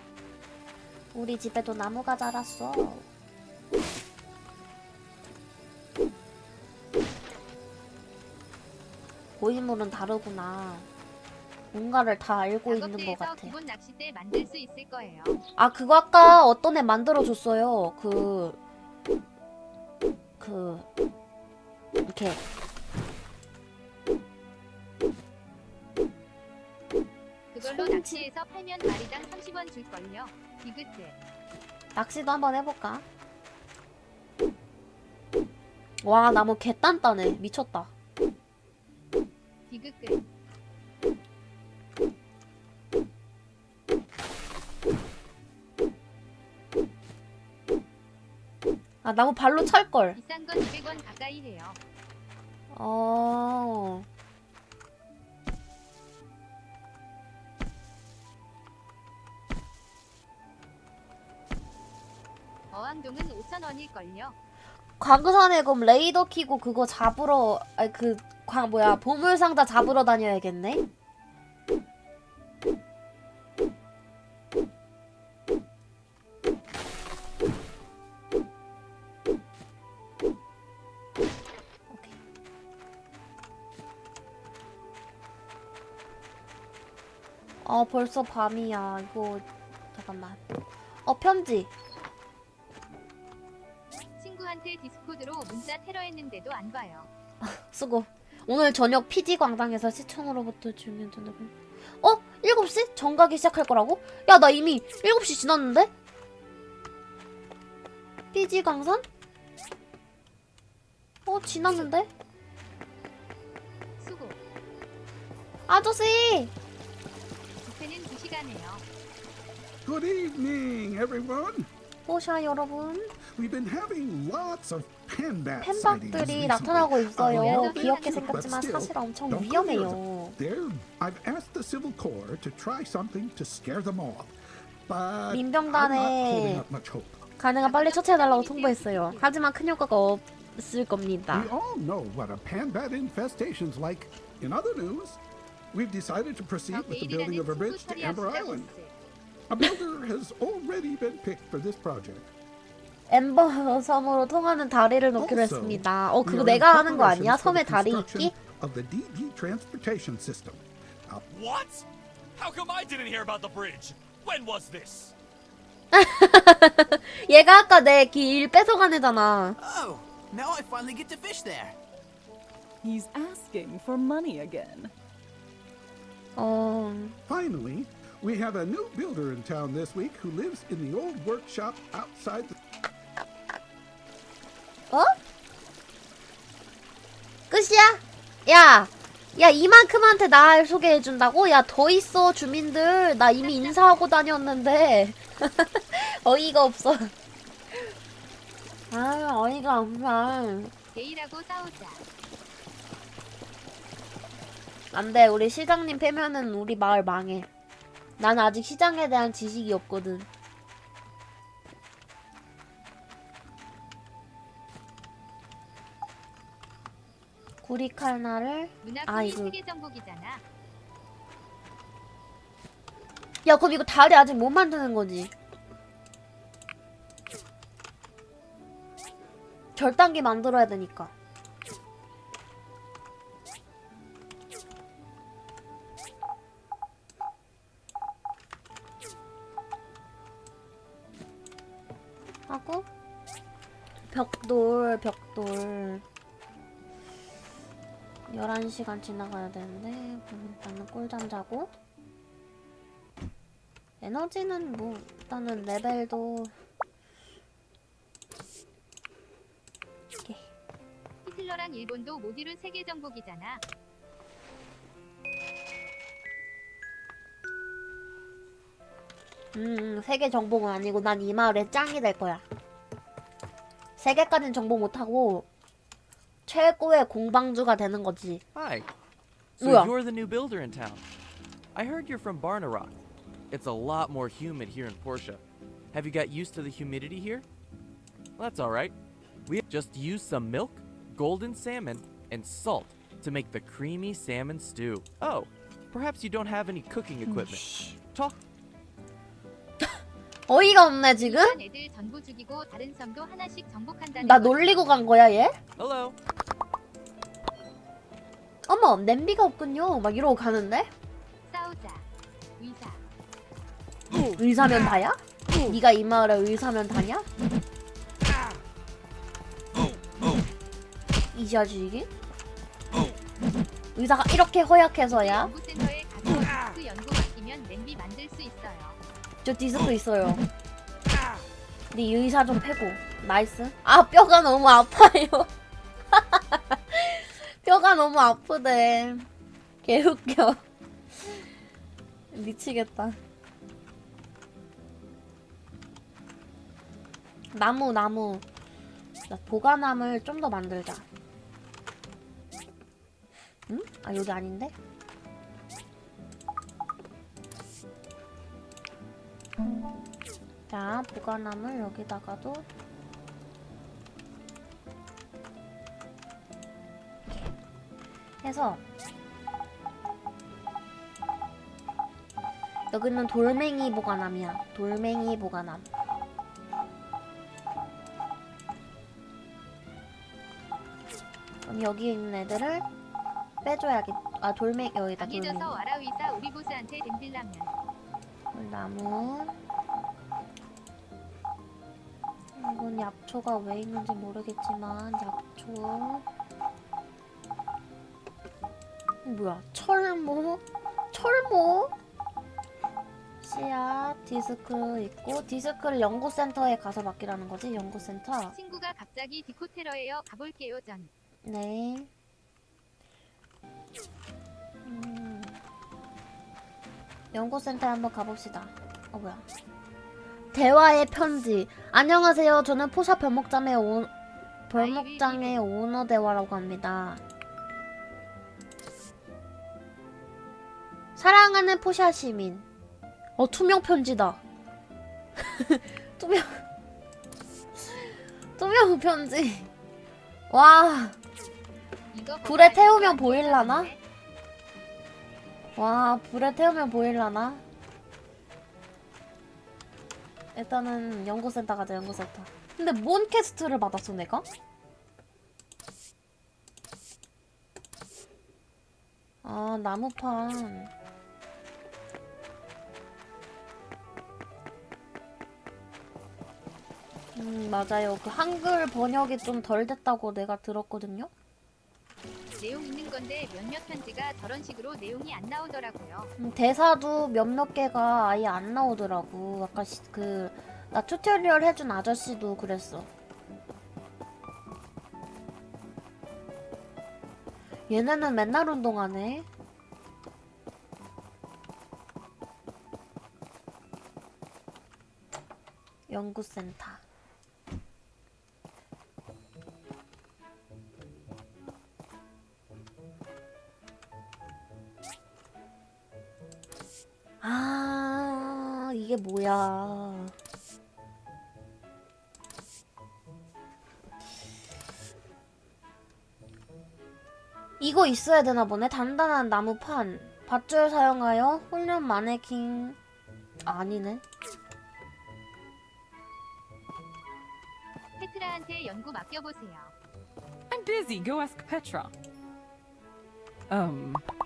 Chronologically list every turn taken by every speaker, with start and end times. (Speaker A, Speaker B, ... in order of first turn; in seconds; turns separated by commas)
Speaker A: 1.1-3.1, Speaker A: 9.4-10.9, Speaker A: 11.7-13.5, Speaker B: 12.7-15.4, Speaker A: 15.6-18.6, Speaker A: 20.4-20.9, Speaker A: 22.0-22.4, Speaker B: 27.5-31.1, Speaker A: 27.6-28.3, Speaker A: 31.9-33.0, Speaker A: 36.0-37.9, Speaker B: 39.7-40.2, Speaker A: 49.0-50.2, Speaker B: 50.1-51.8, Speaker A: 52.7-54.1, Speaker B: 62.7-64.3, Speaker A: 65.0-70.8, Speaker A: 81.9-82.2, Speaker A: 87.6-90.4, Speaker A: 91.0-91.7, Speaker B: 94.2-97.1, Speaker A: 97.4-105.9, Speaker A: 108.3-109.0, Speaker A: 111.3-112.1, Speaker B: 111.6-111.9, Speaker B: 114.0-114.4, Speaker A: 115.7-116.5, Speaker B: 117.6-118.8, Speaker C: 119.8-121.7, Speaker A: 122.1-123.1, Speaker C: 123.3-134.3, Speaker A: 125.6-130.4, Speaker B: 127.3-128.4, Speaker C: 134.9-137.2, Speaker A: 135.3-136.7, Speaker A: 137.4-141.5, Speaker B: 137.6-139.3, Speaker C: 141.3-145.2, Speaker C: 145.7-148.7, Speaker B: 146.7-149.2, Speaker C: 149.5-152.3, Speaker A: 153.1-158.3, Speaker C: 155.2-161.2, Speaker D: 161.3-165.2, Speaker A: 165.9-169.6, Speaker E: 169.6-171.8, Speaker F: 172.8-174.9, Speaker A: 176.3-177.2, Speaker C: 177.3-182.6, Speaker A: 187.5-197.1, Speaker B: 193.4-194.0, Speaker A: 198.9-200.7, Speaker B: 200.9-202.0, Speaker A: 204.9-207.5, Speaker A: 208.2-210.3, Speaker A: 217.6-219.6, Speaker B: 218.8-220.4, Speaker A: 223.4-225.3, Speaker A: 229.8-231.1, Speaker A: 242.5-242.8, Speaker A: 244.1-246.0, Speaker A: 248.3-251.7, Speaker A: 254.0-256.5, Speaker A: 260.2-260.5, Speaker B: 261.2-263.6, Speaker A: 269.5-272.4, Speaker A: 274.0-275.5, Speaker A: 276.4-278.4, Speaker G: 278.5-278.9, Speaker G: 279.6-281.0, Speaker A: 279.6-279.9, Speaker G: 281.7-283.0, Speaker G: 283.5-287.4, Speaker G: 288.4-288.9, Speaker G: 289.5-298.4, Speaker A: 297.2-297.9, Speaker A: 300.5-301.6, Speaker B: 301.2-304.9, Speaker A: 304.2-305.5, Speaker G: 305.8-306.1, Speaker A: 308.7-310.9, Speaker B: 311.5-312.1, Speaker B: 312.6-313.0, Speaker A: 314.4-317.2, Speaker A: 321.3-322.1, Speaker A: 323.9-325.5, Speaker B: 325.1-329.0, Speaker A: 329.4-330.4, Speaker A: 331.9-335.5, Speaker A: 336.1-339.3, Speaker A: 339.8-340.6, Speaker A: 342.3-343.2, Speaker A: 347.5-348.4, Speaker A: 349.3-351.1, Speaker A: 353.7-354.7, Speaker A: 360.7-362.7, Speaker A: 368.4-368.8, Speaker A: 372.9-375.9, Speaker A: 381.6-382.9, Speaker A: 383.6-385.8, Speaker B: 385.2-387.7, Speaker A: 388.5-389.5, Speaker A: 392.5-396.2, Speaker A: 399.2-401.9, Speaker A: 403.4-408.6, Speaker B: 408.5-411.1, Speaker A: 411.4-412.1, Speaker A: 414.8-415.6, Speaker A: 417.3-419.4, Speaker A: 420.5-424.1, Speaker A: 424.7-427.2, Speaker B: 424.7-425.6, Speaker A: 431.1-432.7, Speaker A: 433.4-434.4, Speaker A: 435.4-436.6, Speaker A: 437.8-439.7, Speaker A: 440.5-441.2, Speaker B: 442.1-444.0, Speaker A: 442.4-443.9, Speaker A: 445.8-447.6, Speaker A: 450.5-454.4, Speaker A: 459.4-460.9, Speaker A: 467.4-471.3, Speaker B: 472.6-476.3, Speaker A: 476.4-483.1, Speaker A: 487.9-489.4, Speaker A: 496.1-497.0, Speaker A: 507.4-510.3, Speaker A: 517.8-523.0, Speaker A: 523.6-524.2, Speaker B: 528.2-529.9, Speaker F: 530.7-532.1, Speaker F: 533.7-534.2